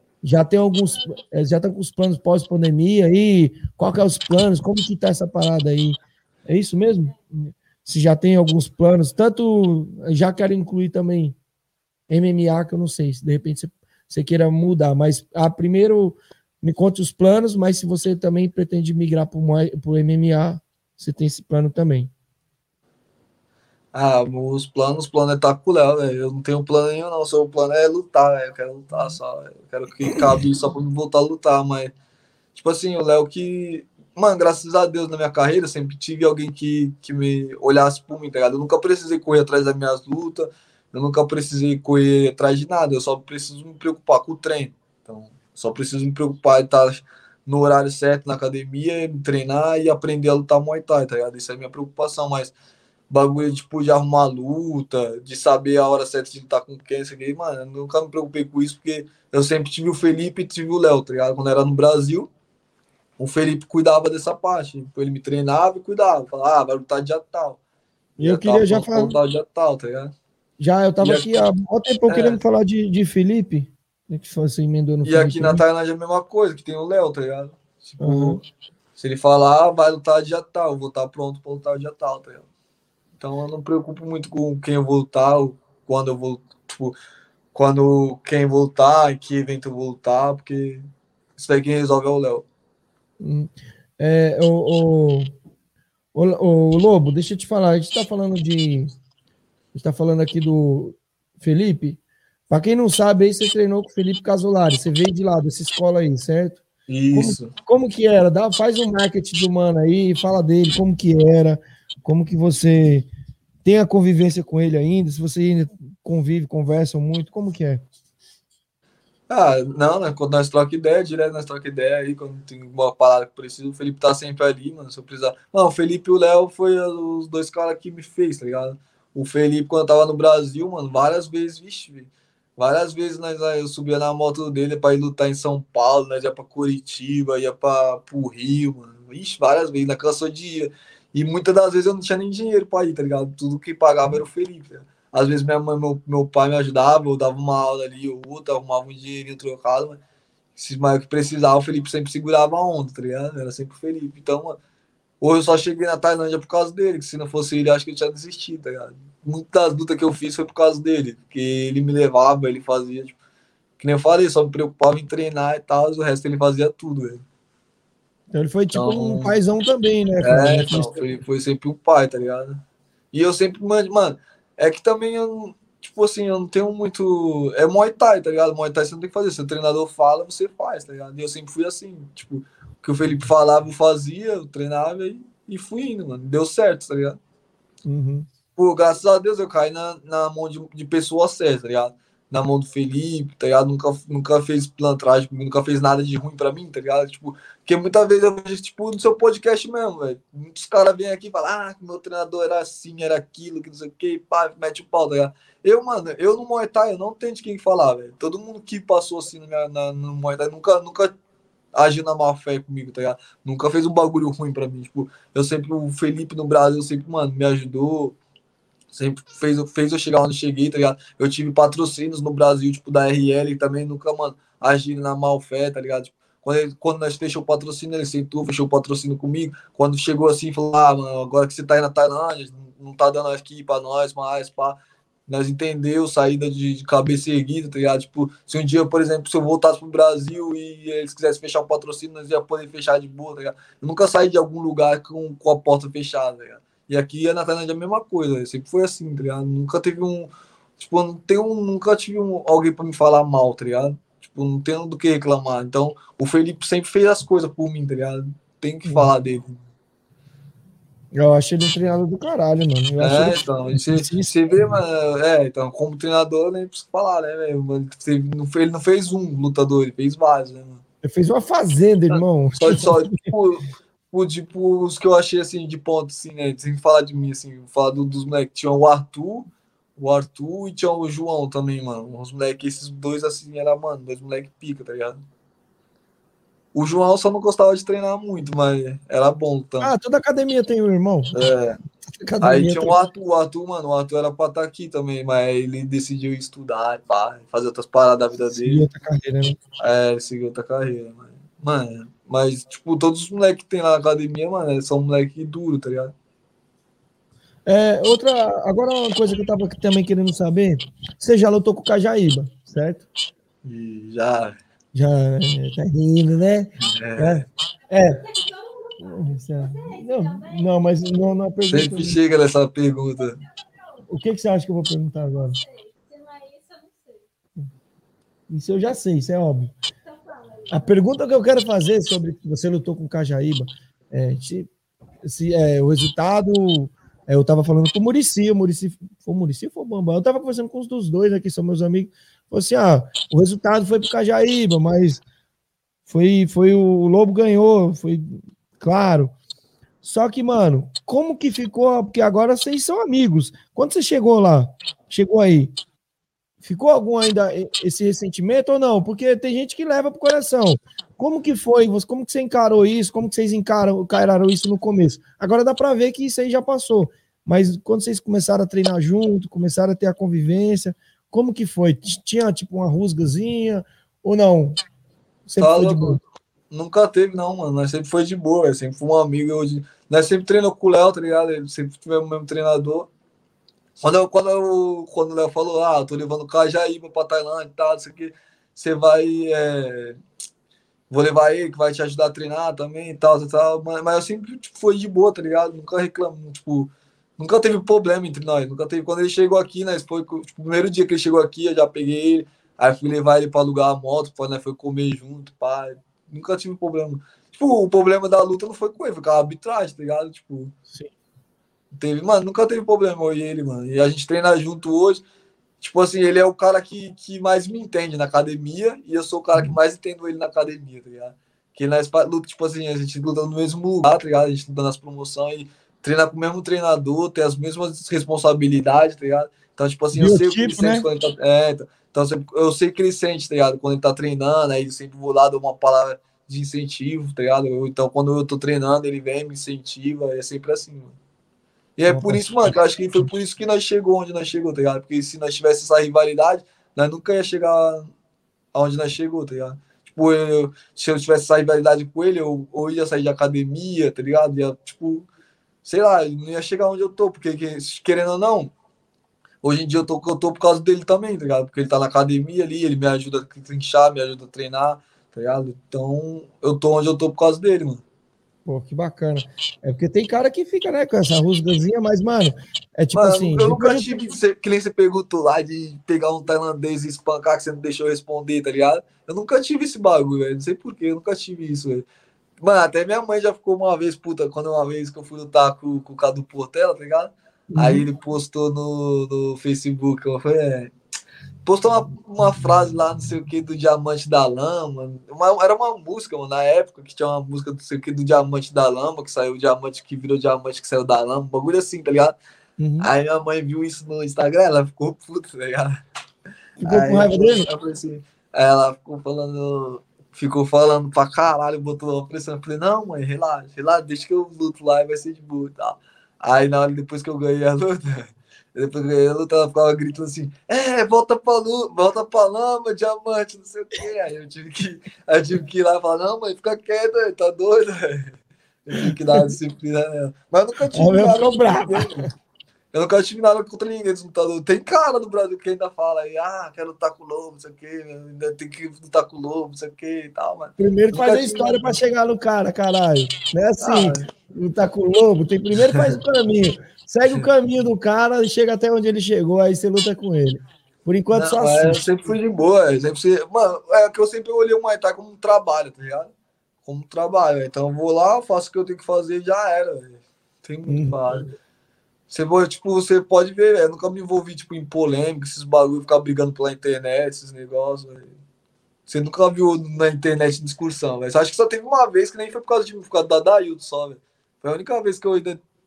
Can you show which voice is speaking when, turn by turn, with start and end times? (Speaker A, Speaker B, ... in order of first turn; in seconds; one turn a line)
Speaker A: 0.2-11.4
Speaker A: 12.1-22.1
Speaker B: 23.9-31.9
Speaker B: 32.5-52.5
Speaker B: 53.1-62.3
Speaker B: 63.2-67.6
Speaker A: 68.2-69.1
Speaker B: 68.2-70.1
Speaker A: 70.6-75.6
Speaker B: 71.0-71.5
Speaker B: 72.1-72.4
Speaker B: 75.0-78.4
Speaker A: 78.0-78.4
Speaker B: 79.0-82.4
Speaker B: 83.2-87.0
Speaker B: 87.5-90.8
Speaker B: 91.4-92.5
Speaker A: 93.2-95.3
Speaker A: 96.1-98.9
Speaker A: 99.8-113.1
Speaker B: 106.9-107.5
Speaker A: 113.6-117.8
Speaker B: 119.3-150.0
Speaker B: 150.6-154.6
Speaker B: 155.2-163.2
Speaker B: 163.8-167.2
Speaker A: 168.3-171.1
Speaker B: 168.7-169.4
Speaker B: 170.2-172.6
Speaker B: 173.1-187.2
Speaker A: 187.8-188.3
Speaker B: 188.6-211.1
Speaker B: 211.7-218.2
Speaker B: 218.9-259.6
Speaker A: 261.1-264.7
Speaker B: 263.0-270.8
Speaker A: 271.0-273.2
Speaker B: 272.1-285.2
Speaker B: 286.7-289.9
Speaker A: 289.8-291.3
Speaker B: 291.3-291.8
Speaker A: 292.1-293.0
Speaker B: 292.4-298.9
Speaker A: 298.5-299.6
Speaker B: 299.8-306.1
Speaker A: 307.7-313.1
Speaker B: 313.6-314.6
Speaker A: 314.9-318.2
Speaker B: 316.8-317.4
Speaker C: 317.9-321.4
Speaker A: 319.0-322.2
Speaker B: 321.7-323.4
Speaker C: 323.2-324.2
Speaker A: 324.1-325.6
Speaker C: 325.2-327.3
Speaker A: 328.5-329.7
Speaker C: 330.0-331.4
Speaker A: 330.7-334.7
Speaker A: 335.2-345.2
Speaker A: 346.1-349.3
Speaker A: 350.0-355.7
Speaker A: 356.6-374.8
Speaker A: 375.5-376.2
Speaker B: 375.6-376.2
Speaker B: 376.7-383.1
Speaker B: 384.0-390.2
Speaker B: 391.1-410.7
Speaker B: 412.0-415.2
Speaker B: 415.8-441.2
Speaker A: 430.1-431.1
Speaker B: 442.0-448.1
Speaker A: 442.1-442.8
Speaker B: 448.7-455.3
Speaker B: 455.9-458.7
Speaker B: 459.6-468.0
Speaker A: 468.7-474.1
Speaker B: 473.1-482.1
Speaker B: 482.6-490.9
Speaker A: 487.7-488.0
Speaker B: 491.7-502.4
Speaker A: 502.8-503.1
Speaker B: 503.0-506.0
Speaker A: 506.8-507.7
Speaker B: 506.8-528.3
Speaker B: 528.9-532.3
Speaker A: 529.0-529.4
Speaker A: 530.9-532.2
Speaker B: 532.9-541.9
Speaker A: 540.8-552.0
Speaker B: 543.8-544.3
Speaker B: 545.9-546.1
Speaker B: 551.3-556.3
Speaker B: 556.9-561.5
Speaker A: 560.9-561.4
Speaker B: 562.3-568.3
Speaker B: 569.1-575.6